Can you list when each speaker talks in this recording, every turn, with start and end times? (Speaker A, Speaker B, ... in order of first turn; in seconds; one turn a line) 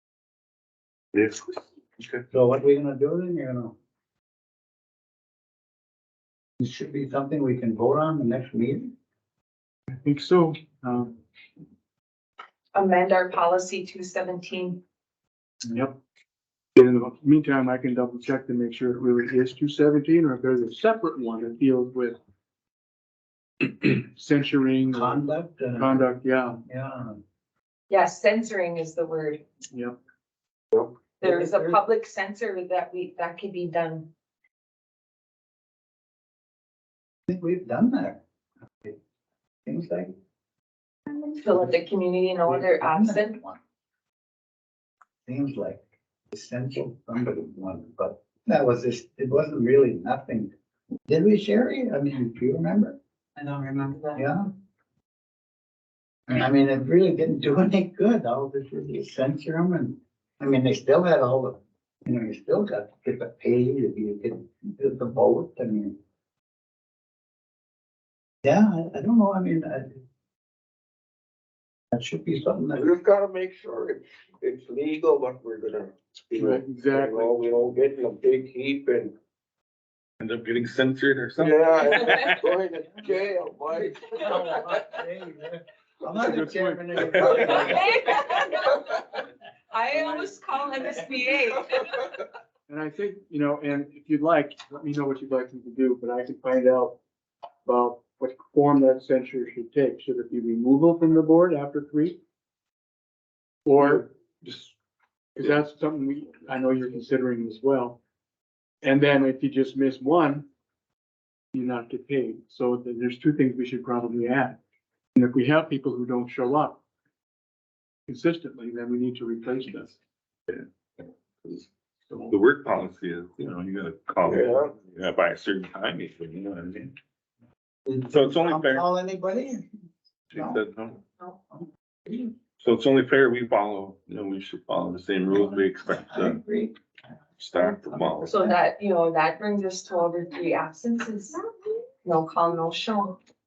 Speaker A: 1.1-2.2
Speaker B: 2.3-3.7
Speaker B: 6.6-8.9
Speaker C: 9.9-11.2
Speaker D: 12.7-14.8
Speaker C: 15.7-16.0
Speaker C: 16.8-22.2
Speaker C: 23.6-26.6
Speaker B: 24.9-26.1
Speaker B: 26.6-27.2
Speaker D: 27.9-29.4
Speaker D: 31.2-34.1
Speaker B: 31.2-31.8
Speaker B: 37.3-38.2
Speaker B: 39.6-40.1
Speaker D: 41.2-43.4
Speaker B: 42.5-43.6
Speaker B: 45.3-50.5
Speaker B: 51.1-53.0
Speaker B: 54.1-54.5
Speaker B: 56.3-66.0
Speaker B: 68.4-70.0
Speaker B: 71.9-72.9
Speaker E: 72.7-79.1
Speaker C: 76.4-77.5
Speaker A: 80.2-82.4
Speaker E: 81.4-84.8
Speaker B: 82.9-88.1
Speaker C: 86.2-87.8
Speaker D: 87.3-89.0
Speaker D: 89.7-92.1
Speaker C: 92.7-97.0
Speaker C: 97.7-102.2
Speaker C: 103.7-104.8
Speaker C: 105.4-108.0
Speaker C: 108.8-110.5
Speaker C: 111.5-114.6
Speaker C: 115.2-116.8
Speaker C: 118.1-120.0
Speaker A: 122.3-126.9
Speaker E: 124.2-124.7
Speaker B: 127.9-129.6
Speaker A: 128.1-128.9
Speaker A: 130.3-131.0
Speaker B: 130.3-130.6
Speaker B: 131.5-132.1
Speaker A: 132.6-136.4
Speaker B: 135.3-136.8
Speaker A: 137.4-138.3
Speaker B: 137.7-138.3
Speaker D: 138.2-141.4
Speaker D: 142.0-143.2